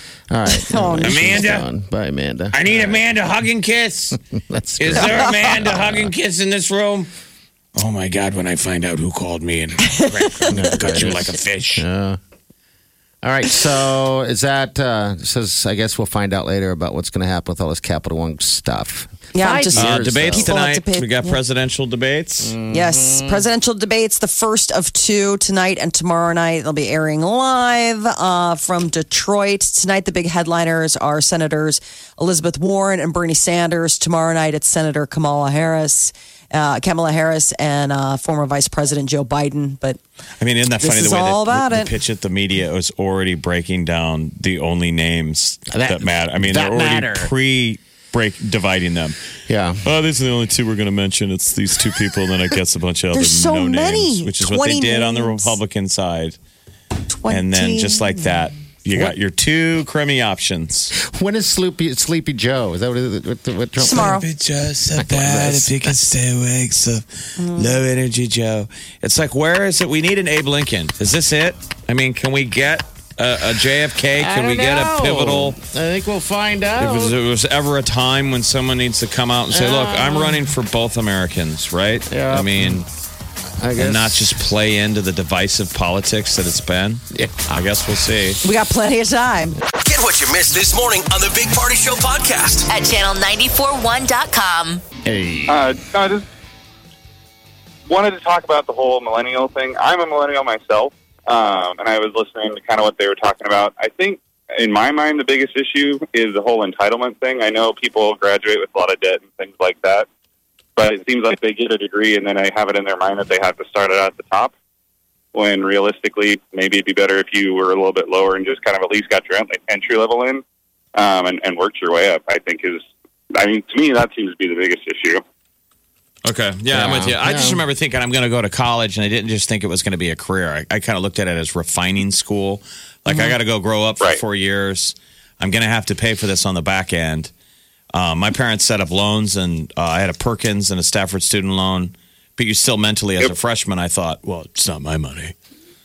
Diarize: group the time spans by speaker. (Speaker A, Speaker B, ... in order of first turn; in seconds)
Speaker A: 0.3-3.0, 4.4-6.1, 10.5-12.2, 13.2-20.5, 22.4-23.4, 45.7-47.3, 49.5-49.9, 61.0-64.2, 65.0-65.9, 74.2-77.2, 79.5-80.4, 82.1-82.8, 83.6-84.2, 87.1-87.6, 95.0-95.6, 126.7-127.6
Speaker B: 0.5-1.2, 9.8-10.5, 19.3-21.4, 22.7-40.0, 40.8-41.9, 53.1-55.5, 57.1-58.3, 63.8-64.3, 67.4-67.8, 88.4-89.6, 133.1-133.3
Speaker C: 1.0-1.7, 2.5-4.2, 4.8-7.1, 7.8-11.8, 19.7-22.6, 40.4-49.2, 49.8-56.4, 57.3-60.9, 63.9-75.6, 76.8-82.9, 83.8-88.4, 126.2-137.3, 137.9-145.3
Speaker D: 89.7-92.7
Speaker E: 92.7-94.8
Speaker F: 95.5-96.2, 97.9-110.1, 110.8-114.5, 115.3-120.4, 121.0-125.2